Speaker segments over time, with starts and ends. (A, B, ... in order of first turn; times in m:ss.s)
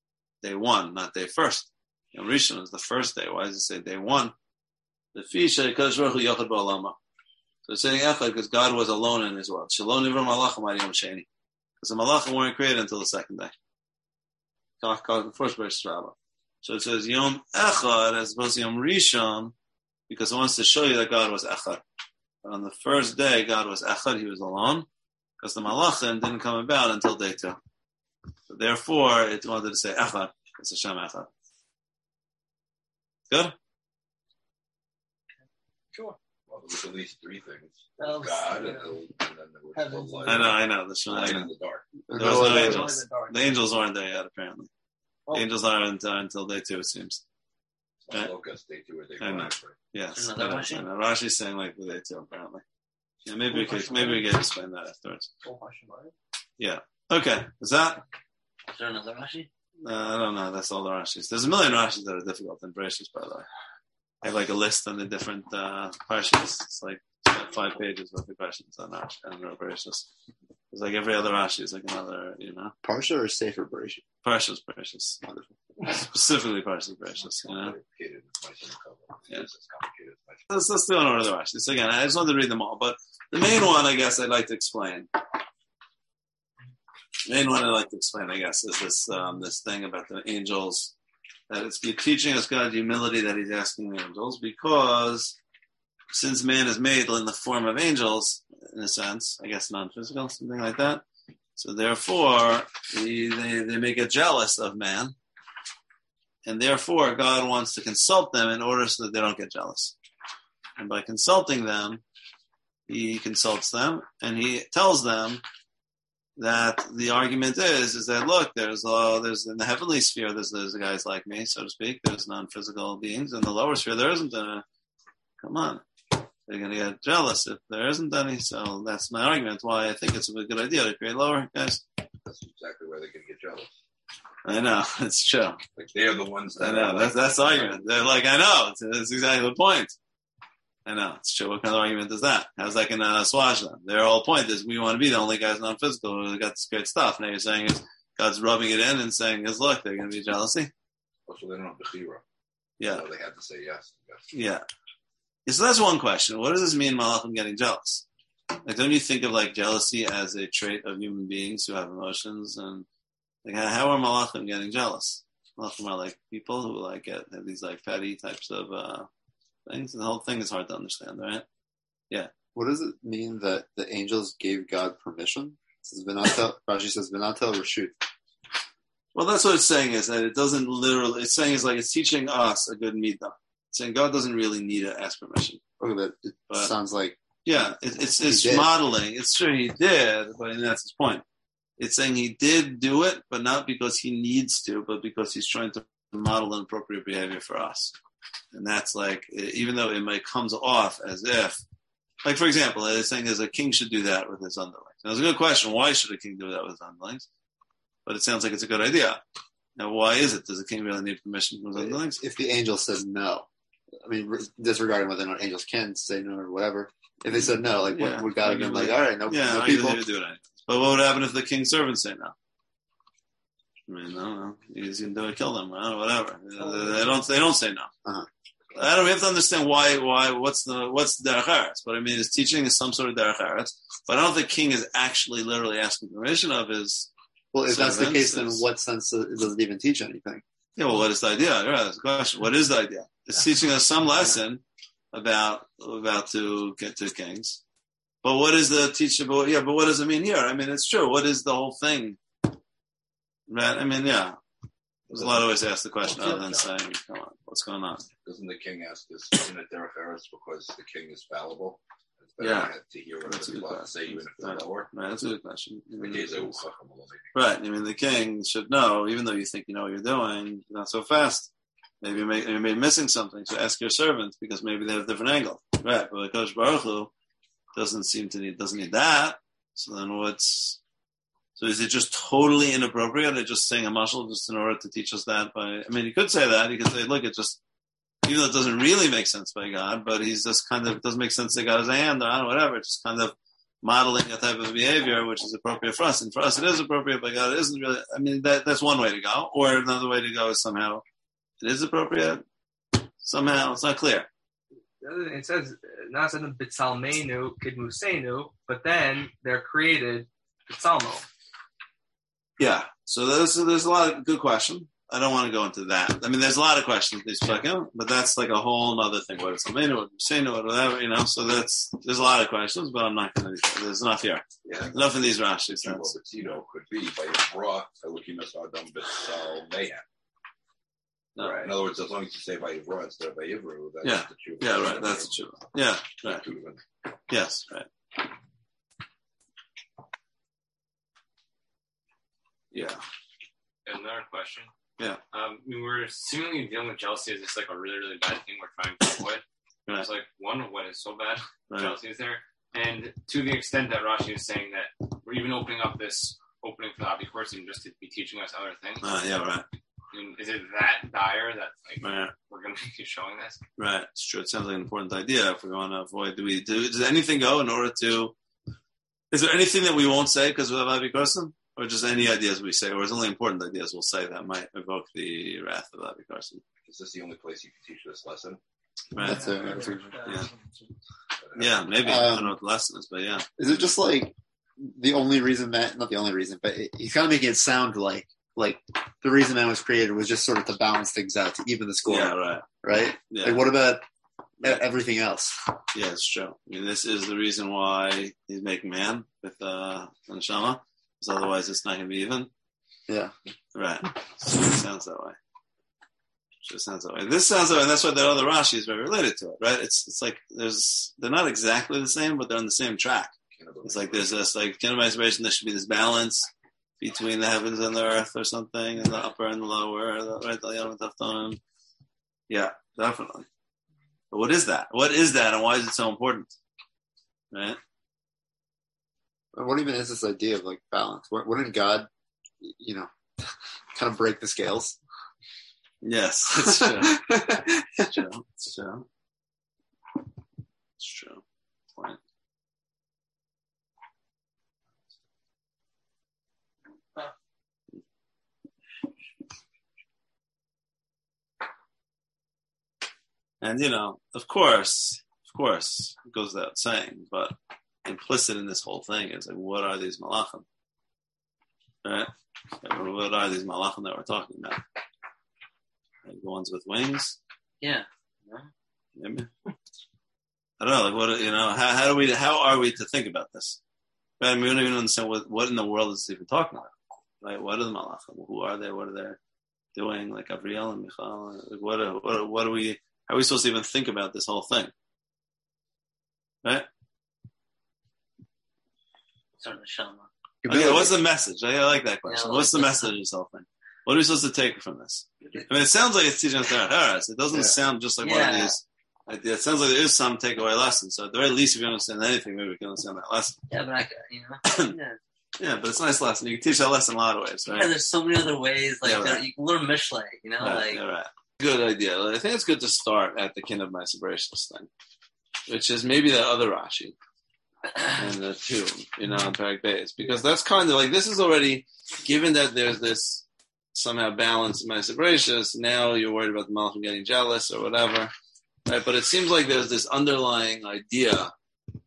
0:00.4-0:04.4 A
0:05.2-0:07.0 A
0:07.7-0:11.3 A
0:11.8-0:13.5 A
0:14.8-0:19.5 A
0:20.1-0:21.8 A
0:22.4-0:24.9 A
0:25.4-0:27.6 A
0:28.5-0:31.3 A
0:33.3-0:33.6 A
0:36.5-0:41.9 B
0:38.0-0:38.9 C
0:39.8-0:40.5 C
0:40.3-0:41.5 A
0:42.1-0:43.0 D
0:42.1-0:44.7 A
0:42.2-0:43.6 C
0:45.3-0:47.2 A
0:48.1-0:49.8 B
0:49.2-0:52.6 A
0:50.1-0:50.9 E
0:53.2-0:55.3 A
0:53.5-0:54.2 C
0:55.4-0:56.1 C
0:56.6-0:58.0 A
0:58.7-0:59.5 E
0:59.8-1:03.5 A
1:04.2-1:10.1 A
1:10.7-1:12.8 A
1:12.8-1:14.0 D
1:14.2-1:15.2 A
1:15.2-1:15.5 D
1:15.8-1:17.8 A
1:17.3-1:20.4 B
1:20.5-1:25.1 A
1:27.3-1:30.9 A
1:31.5-1:35.4 A
1:36.1-1:41.0 A
1:41.6-1:45.2 A
1:46.4-1:50.0 A
1:50.8-1:52.0 A
1:52.9-1:55.4 A
1:56.4-2:04.6 A
2:05.4-2:05.8 A
2:06.5-2:11.8 A
2:12.2-2:13.7 B
2:14.4-2:15.6 A
2:15.8-2:17.8 B
2:16.6-2:20.0 A
2:20.9-2:30.7 A
2:31.3-2:32.2 B
2:32.8-2:33.0 A
2:32.9-2:34.2 B
2:34.3-2:34.6 A
2:35.5-2:38.0 A
2:38.6-2:42.9 A
2:43.4-2:49.1 A
2:49.7-2:51.5 A
2:52.6-2:58.0 D
2:59.1-3:05.6 A
3:05.8-3:07.2 D
3:07.4-3:11.2 A
3:08.2-3:08.7 D
3:11.8-3:18.0 A
3:18.5-3:21.6 A
3:22.2-3:27.3 A
3:28.1-3:29.2 A
3:29.8-3:32.2 A
3:31.8-3:33.5 D
3:34.0-3:40.0 D
3:37.9-3:42.4 A
3:43.9-3:47.9 A
3:48.8-3:57.1 A
3:57.5-4:00.4 D
3:57.7-3:58.6 A
4:00.8-4:07.6 A
4:08.2-4:12.2 A
4:13.5-4:14.4 A
4:15.1-4:18.1 A
4:18.2-4:24.9 B
4:22.4-4:22.7 A
4:23.2-4:26.6 A
4:26.0-4:27.3 B
4:27.3-4:31.5 A
4:32.0-4:37.1 A
4:37.8-4:40.8 A
4:41.6-4:47.6 A
4:48.2-5:01.0 A
5:01.6-5:02.4 A
5:03.2-5:04.3 A
5:05.0-5:11.3 C
5:12.6-5:26.1 A
5:24.6-5:25.1 B
5:25.8-5:30.0 B
5:31.4-5:31.7 A
5:31.4-5:35.3 B
5:34.0-5:36.5 A
5:36.2-5:36.8 B
5:37.3-5:37.9 A
5:42.7-5:43.0 A
5:43.9-5:44.7 F
5:45.3-5:59.1 F
5:59.0-5:59.7 A
6:00.1-6:03.6 F
6:02.0-6:02.3 A
6:03.8-6:08.4 A
6:09.3-6:16.6 A
6:16.9-6:18.6 B
6:19.1-6:20.5 A
6:19.2-6:20.2 D
6:19.2-6:20.9 C
6:21.4-6:21.8 B
6:21.6-6:23.9 A
6:22.0-6:22.6 D
6:23.6-6:34.0 D
6:32.1-6:32.7 A
6:33.2-6:33.7 A
6:34.6-6:35.6 D
6:35.9-6:42.5 A
6:43.1-6:43.3 D
6:43.8-6:45.4 A
6:46.6-6:56.5 A
6:53.5-6:54.3 B
6:57.0-7:01.6 A
7:02.5-7:03.5 A
7:04.3-7:06.6 A
7:07.5-7:07.8 A
7:09.5-7:12.1 D
7:12.6-7:13.1 D
7:13.9-7:15.0 D
7:16.0-7:17.4 A
7:16.7-7:18.1 D
7:18.0-7:19.1 A
7:21.0-7:21.4 A
7:33.6-7:40.6 A
7:42.0-7:42.3 A
7:42.8-7:44.8 A
7:46.2-7:47.4 A
7:47.8-7:48.7 E
7:49.2-7:49.5 A
7:50.8-7:53.8 A
7:54.4-7:59.4 A
8:00.0-8:04.9 A
8:09.6-8:10.3 E
8:10.6-8:11.2 D
8:10.7-8:23.6 A
8:12.2-8:13.1 E
8:18.2-8:18.8 E
8:23.7-8:25.2 E
8:24.6-8:24.9 A
8:25.6-8:28.0 A
8:27.7-8:31.0 E
8:29.0-8:29.5 A
8:30.6-8:34.9 A
8:35.7-8:37.2 A
8:38.1-8:48.3 A
8:48.9-8:51.5 A